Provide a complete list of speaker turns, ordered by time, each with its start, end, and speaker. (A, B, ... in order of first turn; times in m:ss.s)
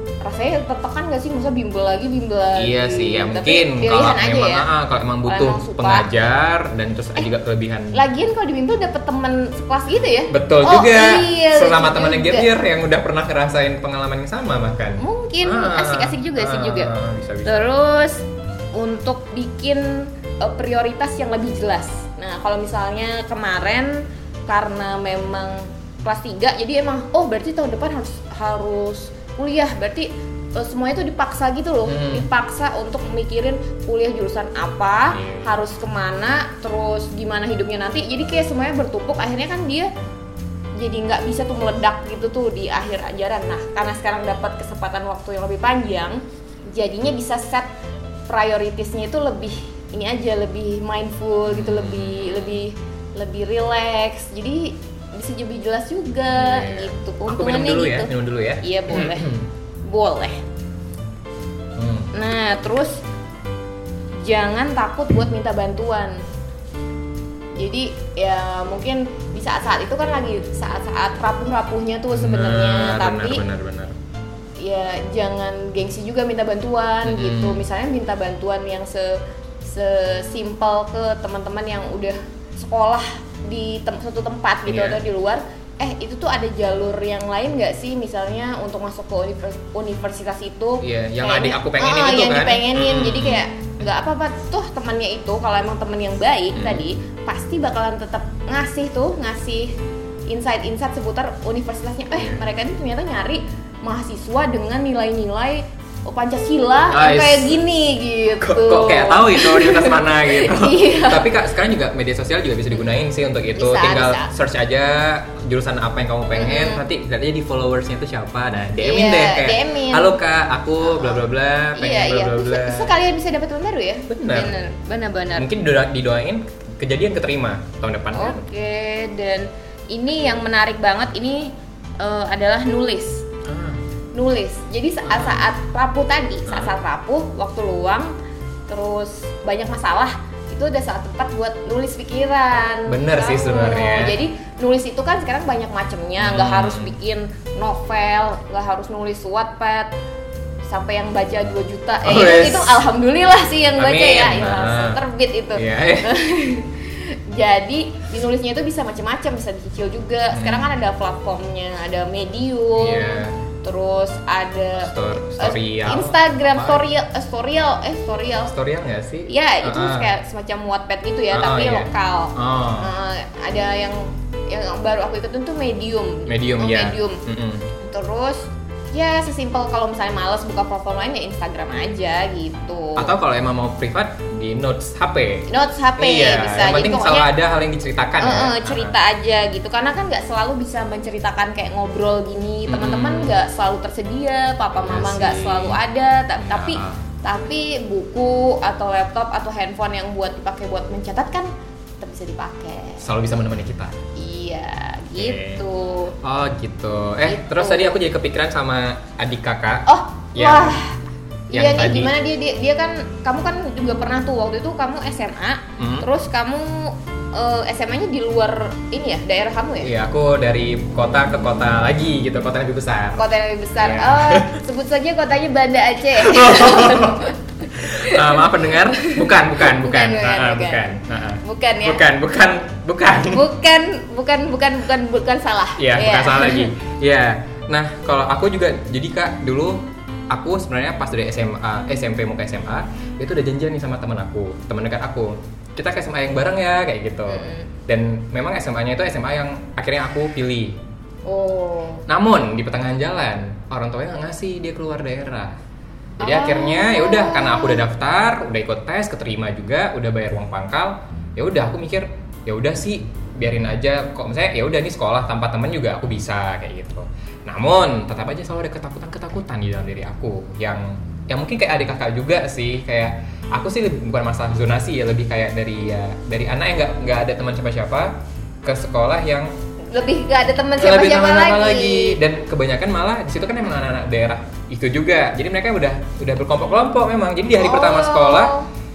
0:00.2-0:04.7 A
0:02.6-0:08.0 B
0:05.2-0:06.1 A
0:07.9-0:12.5 A
0:10.3-0:17.7 B
0:15.0-0:16.9 A
0:17.4-0:39.9 A
0:31.8-0:32.3 B
0:35.1-0:35.5 B
0:40.8-0:47.7 A
0:48.3-0:59.3 A
0:51.5-0:52.6 B
0:56.3-0:59.5 B
0:59.8-1:00.4 A
1:01.8-1:02.1 B
1:02.1-1:03.0 A
1:04.2-1:06.2 A
1:07.5-1:13.4 A
1:12.1-1:13.9 B
1:14.6-1:39.8 A
1:17.0-1:17.6 B
1:24.6-1:25.0 B
1:30.8-1:33.4 B
1:36.5-1:36.8 B
1:40.3-1:51.4 A
1:46.9-1:47.6 B
1:48.4-2:02.9 B
1:53.5-1:54.3 A
1:56.3-1:56.8 A
1:58.8-2:00.1 A
2:00.8-2:01.2 A
2:01.7-2:05.5 A
2:04.1-2:04.5 B
2:05.4-2:08.4 B
2:08.1-2:13.2 A
2:13.4-2:13.8 B
2:14.1-2:18.1 A
2:15.0-2:15.4 B
2:16.5-2:16.7 B
2:18.7-2:29.9 A
2:22.9-2:24.2 B
2:26.2-2:26.9 B
2:30.6-2:48.5 A
2:32.0-2:32.8 B
2:33.8-2:35.0 B
2:35.5-2:36.1 B
2:40.3-2:40.7 B
2:42.8-2:43.4 B
2:44.8-2:46.8 B
2:48.4-2:50.1 B
2:49.3-2:57.2 A
2:51.3-2:52.9 B
2:56.3-2:57.7 B
2:57.8-3:03.1 A
3:03.0-3:05.5 B
3:05.5-3:07.3 A
3:06.0-3:08.9 B
3:08.2-3:21.5 A
3:12.7-3:13.4 B
3:14.8-3:15.8 B
3:16.4-3:17.0 B
3:22.0-3:23.1 A
3:23.0-3:24.0 B
3:24.2-3:26.2 A
3:25.2-3:25.6 B
3:26.2-3:30.8 B
3:27.2-3:28.0 A
3:29.8-3:31.0 A
3:31.5-3:39.9 A
3:31.5-3:32.1 B
3:35.8-3:36.1 B
3:39.8-3:43.2 B
3:43.2-3:52.0 A
3:43.8-3:44.6 B
3:46.2-3:53.4 B
3:53.3-3:56.7 A
3:55.8-4:10.8 B
4:07.3-4:07.7 A
4:11.2-4:12.0 A
4:12.1-4:15.6 B
4:16.2-4:17.8 A
4:16.2-4:39.5 B
4:39.9-4:42.2 A
4:40.8-4:48.5 B
4:47.6-4:48.7 A